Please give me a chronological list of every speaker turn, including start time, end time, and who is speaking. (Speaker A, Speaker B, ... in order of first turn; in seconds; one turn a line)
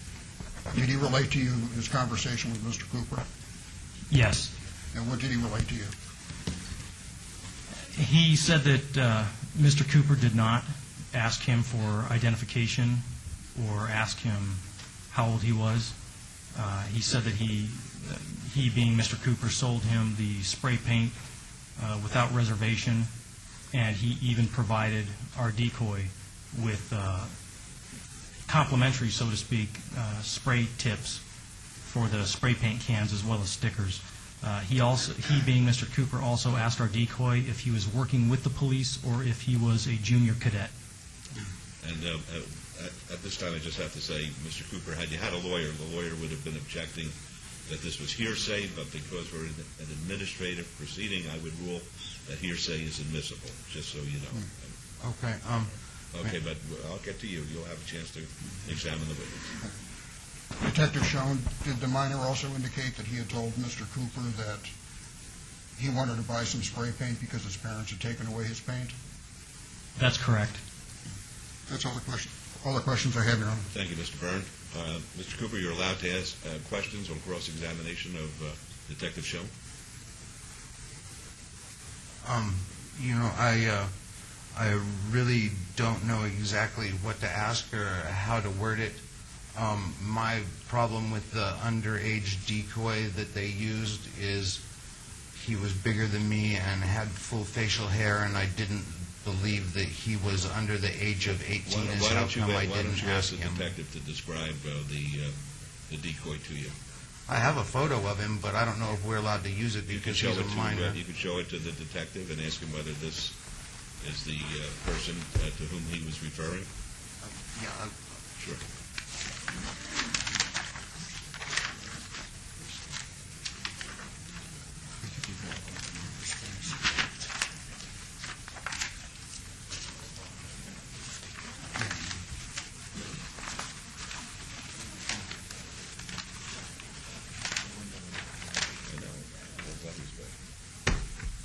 Speaker A: 0.7-3.2
Speaker B: 4.1-4.5
Speaker A: 4.9-5.9
Speaker B: 7.9-13.0
Speaker B: 13.5-15.9
Speaker B: 16.5-21.1
Speaker B: 21.8-23.1
Speaker B: 23.7-27.3
Speaker B: 28.5-31.2
Speaker B: 31.8-40.7
Speaker C: 41.8-47.1
Speaker C: 47.7-54.8
Speaker D: 55.0-56.3
Speaker C: 56.1-59.6
Speaker A: 60.6-64.7
Speaker A: 65.8-68.9
Speaker B: 70.0-70.6
Speaker A: 71.7-73.7
Speaker C: 73.7-79.5
Speaker D: 82.2-83.9
Speaker D: 84.5-89.0
Speaker D: 89.5-94.6
Speaker D: 95.3-103.7
Speaker C: 101.7-105.3
Speaker C: 105.9-106.8
Speaker D: 107.3-111.0
Speaker C: 109.9-113.4
Speaker C: 114.0-116.7
Speaker D: 117.2-118.0
Speaker A: 125.0-126.8
Speaker C: 138.8-140.3